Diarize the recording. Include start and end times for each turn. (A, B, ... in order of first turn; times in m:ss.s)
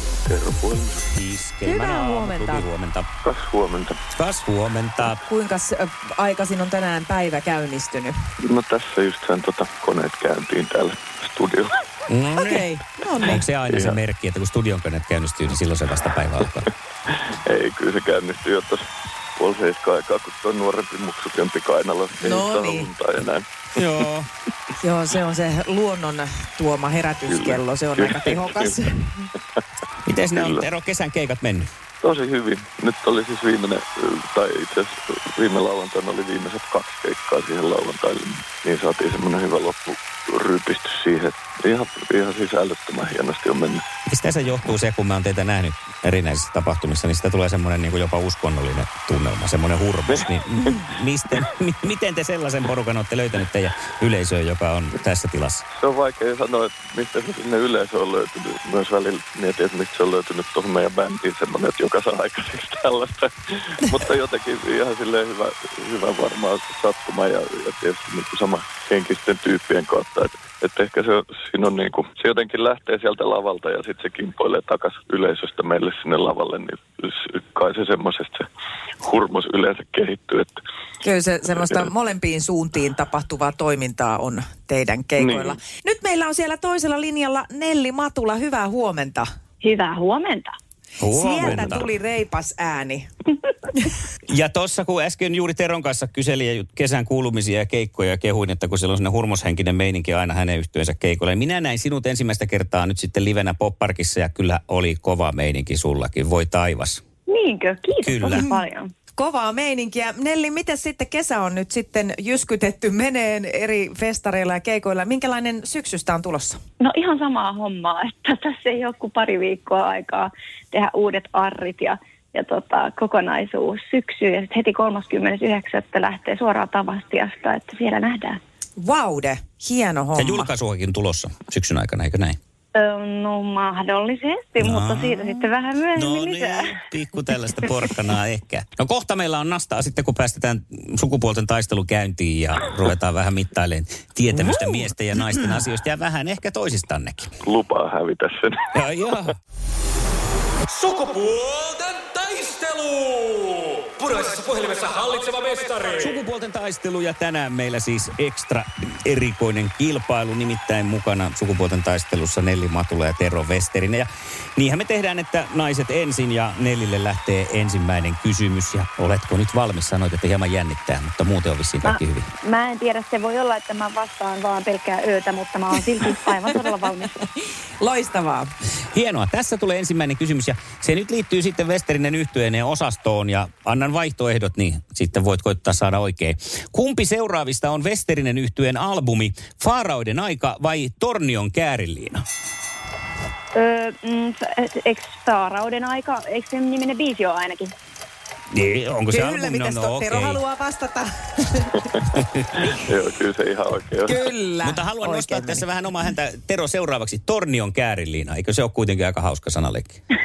0:00.2-0:01.1 A
0:01.1-0:03.1 B
0:01.6-0:02.7 C
0:03.2-0:04.0 A
0:04.1-0:05.2 B
0:05.0-0:08.1 C
0:08.4-0:11.9 A
0:12.1-0:16.7 B
0:12.3-0:13.4 C
0:13.3-0:14.0 A
0:17.1-0:18.8 A
0:19.4-0:23.8 A
0:22.2-0:22.9 C
0:23.8-0:24.3 B
0:24.8-0:29.3 C
0:27.3-0:28.8 A
0:30.0-0:31.7 B
0:30.3-0:30.6 A
0:32.0-0:43.8 A
0:44.1-0:55.6 B
0:50.2-0:50.9 A
0:55.7-1:18.4 A
1:19.0-1:20.6 A
1:21.0-1:29.2 C
1:25.2-1:25.5 A
1:29.6-1:30.5 D
1:31.0-1:31.9 B
1:31.1-1:33.1 C
1:34.3-1:47.0 B
1:47.3-1:48.9 D
1:48.0-1:48.5 B
1:48.3-1:48.6 C
1:49.2-1:56.6 C
1:56.8-2:08.4 D
2:08.8-2:10.5 C
2:10.2-2:12.4 B
2:12.7-2:16.8 D
2:14.6-2:27.3 B
2:27.4-2:28.7 A
2:28.7-2:29.4 B
2:30.7-2:36.2 E
2:36.0-2:52.3 B
2:51.8-2:57.2 D
2:57.8-2:58.5 C
2:58.9-3:12.2 B
3:13.5-3:17.7 D
3:18.5-3:20.4 B
3:19.1-3:21.9 C
3:22.2-3:22.6 B
3:22.7-3:24.2 A
3:24.0-3:25.6 C
3:24.6-3:30.0 B